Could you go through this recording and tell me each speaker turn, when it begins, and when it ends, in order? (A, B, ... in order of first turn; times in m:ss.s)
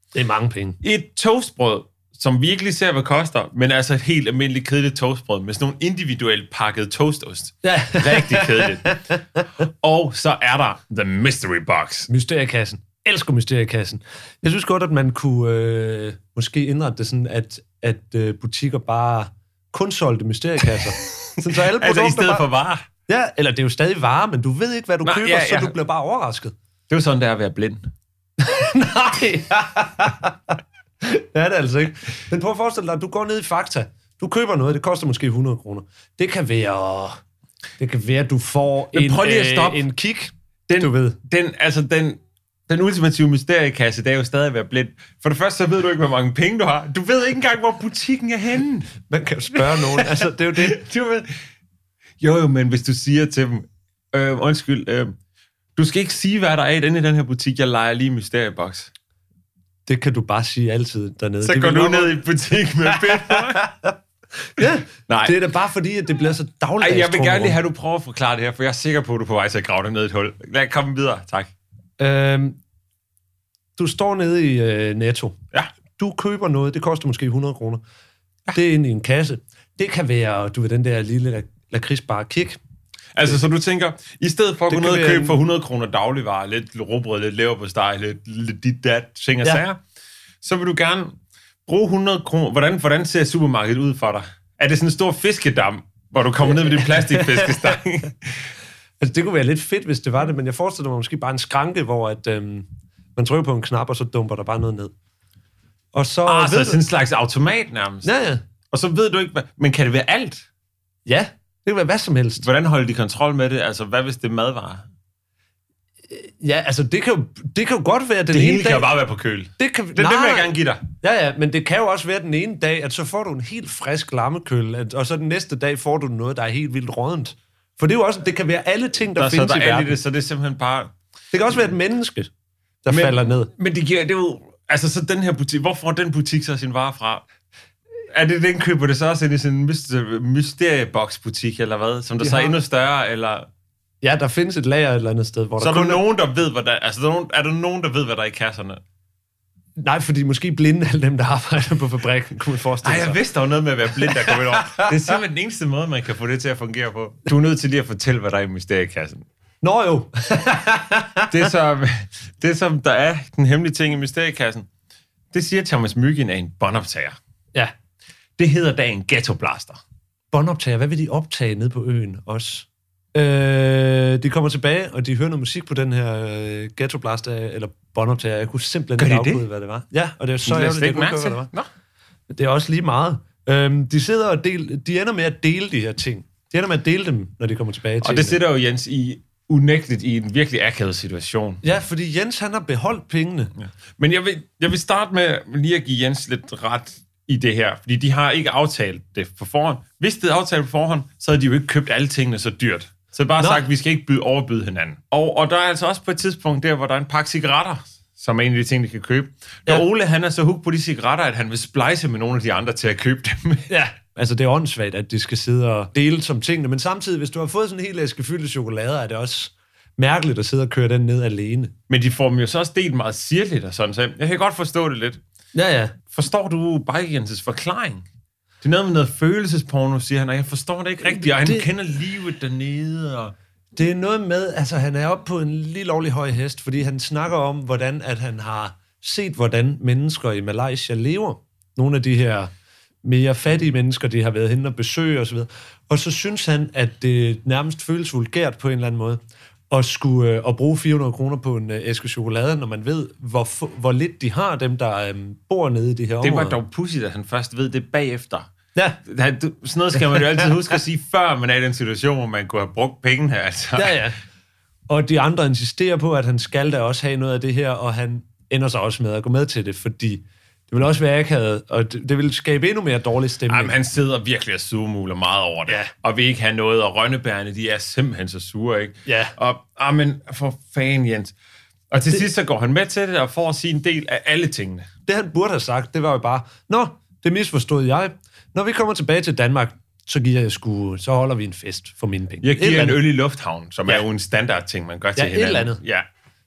0:00.1-0:00.8 A
0:00.8-0:09.0 B
0:07.6-0:09.2 A
0:09.6-0:12.1 B
0:12.1-0:22.5 A
0:21.2-0:22.9 B
0:23.1-0:26.5 A
0:25.0-0:25.8 B
0:26.9-0:27.9 B
0:28.4-0:37.2 A
0:37.8-0:41.2 A
0:38.9-0:39.8 B
0:40.7-0:48.9 B
0:49.1-0:50.8 A
0:49.6-0:51.3 B
0:52.2-0:55.1 B
0:55.8-0:58.9 B
0:59.9-1:02.2 A
1:01.4-1:03.7 B
1:02.9-1:04.0 A
1:04.5-1:07.6 A
1:05.1-1:05.4 B
1:06.8-1:11.5 B
1:12.0-1:12.6 A
1:13.8-1:15.4 A
1:16.0-1:17.8 A
1:18.5-1:22.6 A
1:23.2-1:29.8 B
1:24.7-1:25.4 A
1:30.4-1:38.5 B
1:36.4-1:37.8 A
1:39.0-1:44.9 A
1:45.9-1:46.8 A
1:46.3-1:48.1 B
1:48.0-1:48.4 A
1:48.7-1:50.5 B
1:51.1-1:52.5 A
1:52.4-1:54.9 B
1:56.1-1:58.9 A
1:58.3-2:00.8 B
1:59.6-2:10.0 A
2:09.2-2:10.9 B
2:11.3-2:12.3 A
2:12.8-2:13.5 A
2:12.9-2:17.2 B
2:18.1-2:23.5 B
2:22.2-2:22.6 A
2:24.0-2:26.0 A
2:25.6-2:28.8 B
2:29.8-2:33.2 A
2:32.8-2:39.3 B
2:34.0-2:35.0 A
2:39.6-2:41.5 A
2:41.3-2:44.7 B
2:45.3-2:47.2 B
2:48.4-2:49.8 B
2:50.3-3:01.5 A
2:59.0-2:59.5 B
3:00.4-3:01.7 B
3:02.3-3:08.4 A
3:08.0-3:11.6 B
3:11.6-3:13.5 A
3:13.6-3:33.7 B
3:23.4-3:23.6 A
3:33.7-3:41.7 A
3:41.9-3:45.2 B
3:45.5-3:45.9 A
3:46.1-3:48.0 B
3:48.6-3:53.3 B
3:51.0-3:51.7 A
3:53.8-4:02.5 A
4:03.0-4:16.6 A
4:16.2-4:18.5 B
4:19.0-4:24.0 B
4:20.0-4:20.7 A
4:23.8-4:24.2 A
4:24.9-4:33.8 A
4:33.5-4:41.3 B
4:39.1-4:39.3 A
4:41.9-4:44.9 B
4:45.1-4:53.0 A
4:52.4-4:56.1 B
4:55.2-4:55.8 A